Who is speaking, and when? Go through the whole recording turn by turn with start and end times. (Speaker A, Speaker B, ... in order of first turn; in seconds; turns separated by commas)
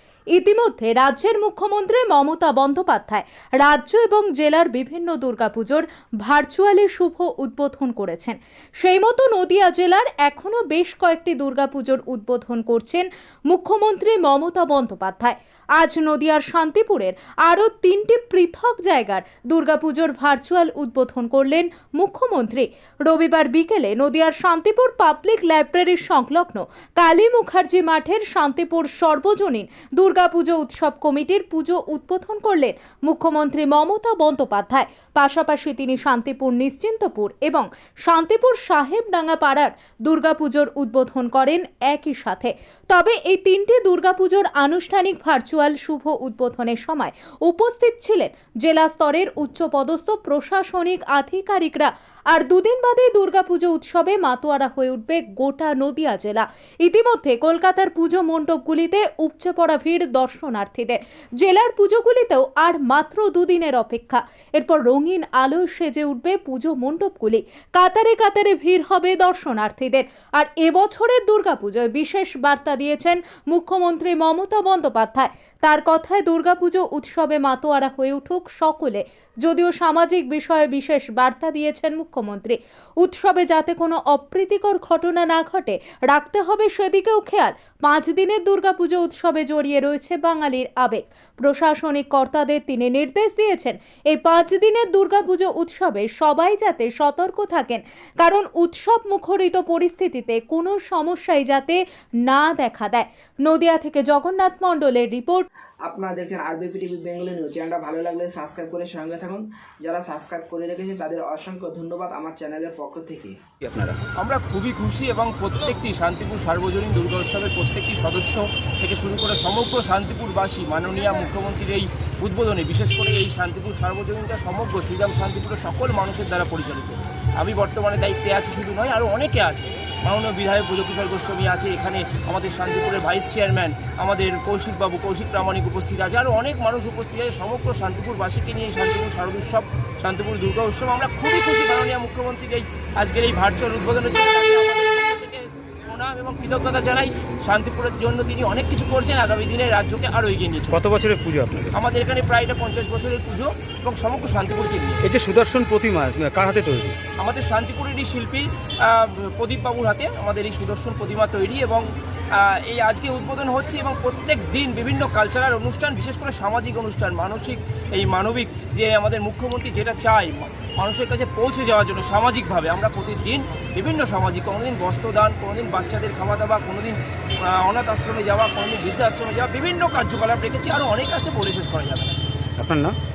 Speaker A: 0.3-105.5, Speaker B: 105.8-113.4, Speaker C: 113.6-114.0, Speaker D: 114.2-150.8, Speaker C: 150.7-151.8, Speaker D: 151.7-155.0, Speaker C: 155.0-157.0, Speaker D: 157.2-182.3, Speaker C: 182.6-182.9